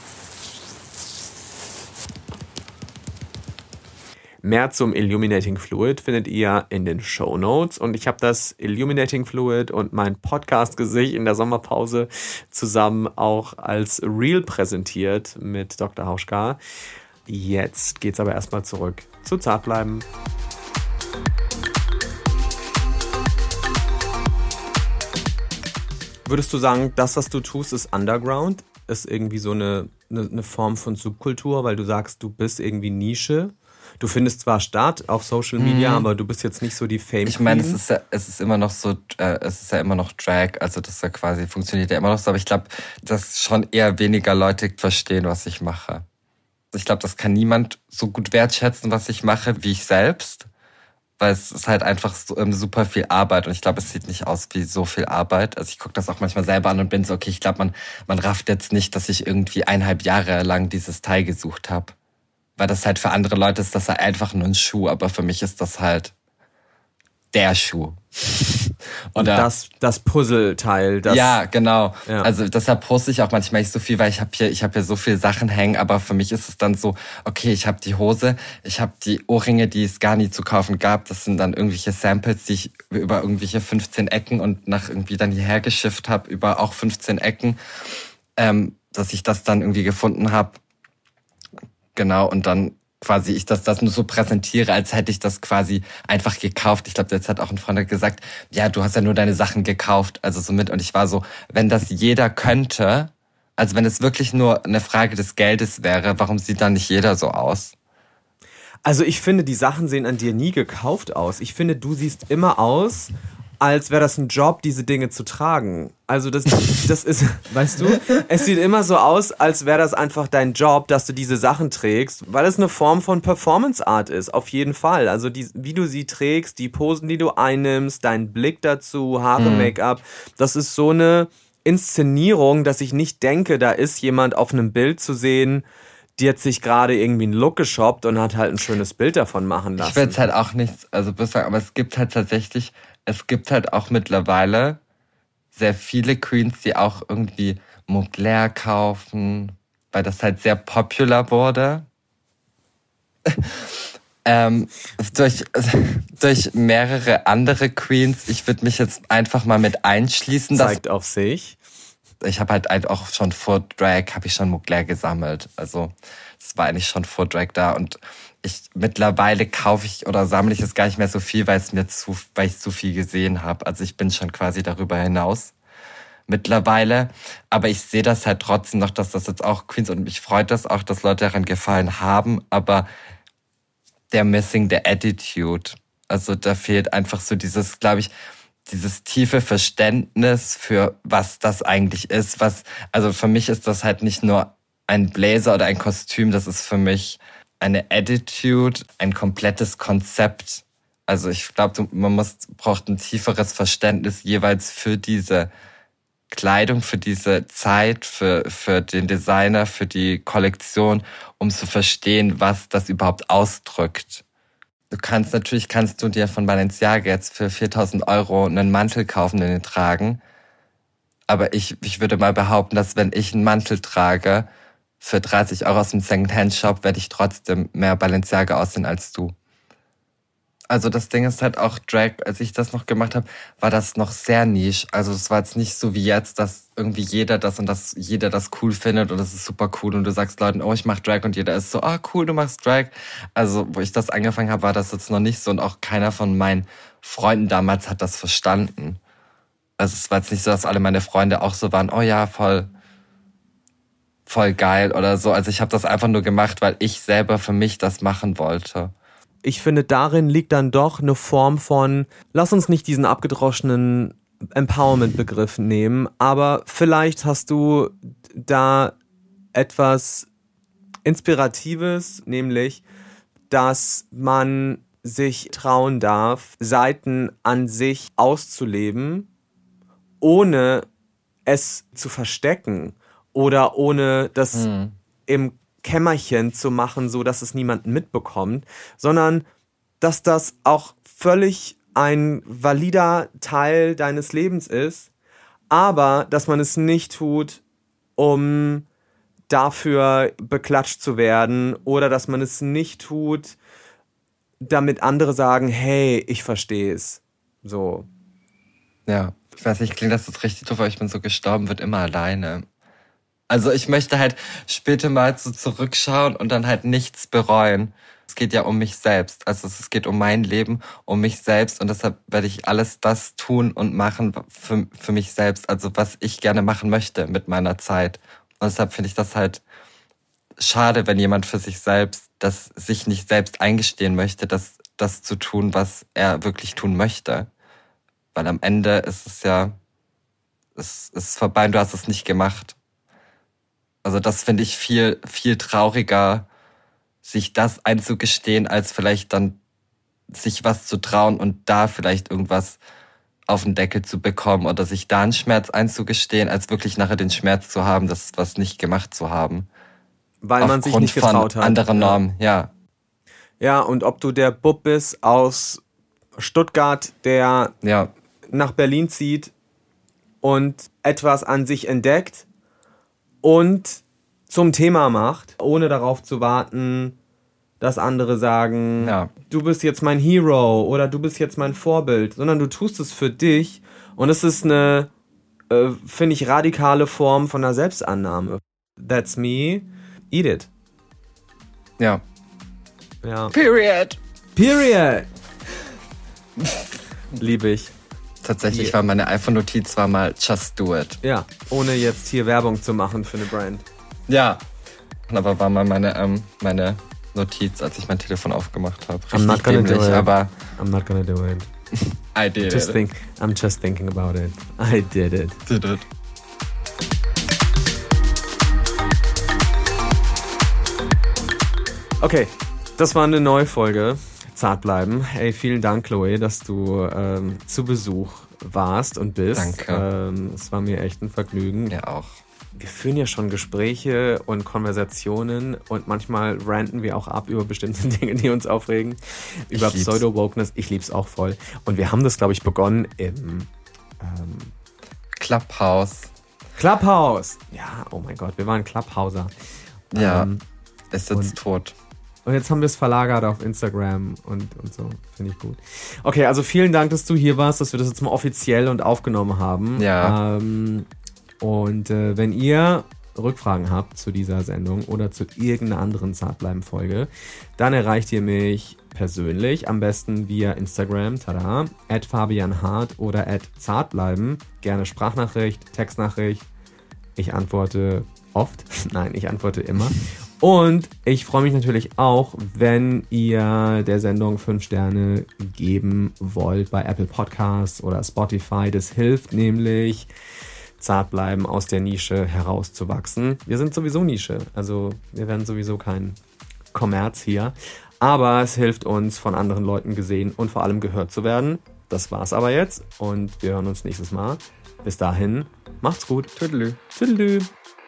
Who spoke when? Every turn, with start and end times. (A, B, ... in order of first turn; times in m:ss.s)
0:04.4-0:16.6 A
0:17.2-0:20.0 A
0:26.2-0:37.8 A
0:35.6-0:36.1 B
0:37.2-0:46.0 B
0:46.7-0:50.5 B
0:51.2-1:01.9 B
1:02.6-1:06.1 B
1:07.3-1:08.5 B
1:09.1-1:09.5 B
1:09.1-1:11.4 A
1:11.1-1:27.6 B
1:12.0-1:12.3 A
1:28.4-1:30.6 B
1:32.0-1:47.7 B
1:48.8-2:15.6 A
2:09.4-2:09.7 B
2:16.2-2:20.2 A
2:19.8-2:24.8 B
2:25.5-2:31.8 B
2:33.3-2:33.7 B
2:34.2-2:40.8 B
2:40.5-2:41.6 A
2:42.2-2:55.5 B
2:56.3-3:02.9 B
3:04.1-3:08.1 B
3:08.7-3:25.5 B
3:26.3-3:34.2 B
3:34.9-3:40.2 B
3:41.3-3:44.5 B
3:45.0-3:49.3 B
3:50.7-4:09.0 B
4:09.8-4:12.7 B
4:14.3-4:18.9 B
4:19.4-4:29.0 A
4:29.5-4:30.3 A
4:31.0-4:32.8 A
4:33.5-4:39.3 A
4:40.2-4:40.9 A
4:41.4-4:44.7 A
4:44.5-4:45.0 B
4:45.3-4:49.4 A
4:50.0-4:55.1 A
4:55.7-4:57.6 A
4:58.2-4:58.8 A
4:59.5-5:03.6 A
5:04.6-5:08.1 A
5:09.1-5:12.6 B
5:13.5-5:29.6 B
5:30.6-5:37.5 B
5:38.3-5:39.8 B
5:40.8-5:42.8 B
5:44.0-5:46.5 B
5:47.2-5:49.6 B
5:50.3-5:52.8 B
5:53.5-5:59.7 B
6:00.4-6:02.2 A
6:00.6-6:02.7 B
6:03.6-6:05.8 A
6:06.4-6:07.7 A
6:07.8-6:08.1 B
6:08.5-6:09.5 A
6:10.4-6:12.5 A
6:13.4-6:17.2 A
6:17.8-6:25.1 A
6:19.0-6:19.3 B
6:25.7-6:30.7 A
6:33.2-6:33.5 A
6:33.5-6:34.2 B
6:34.5-6:35.3 A
6:37.4-6:37.9 A
6:38.4-6:41.2 B
6:41.2-6:43.8 A
6:44.3-6:44.6 B
6:45.3-6:50.5 B
6:49.3-6:51.7 A
6:52.3-6:53.0 B
6:52.6-6:55.6 A
6:55.6-6:56.0 B
7:02.2-7:12.0 A
7:09.5-7:10.0 B
7:11.9-7:12.4 B
7:12.7-7:24.7 A
7:19.7-7:20.2 B
7:25.4-7:26.3 B
7:26.8-7:29.5 A
7:30.1-7:30.6 A
7:30.1-7:30.5 B
7:31.1-7:31.9 B
7:32.4-7:41.1 A
7:40.0-7:40.4 B
7:41.6-7:56.6 A
7:57.4-8:10.3 A
8:11.0-8:16.4 A
8:16.9-8:27.7 A
8:26.6-8:27.0 B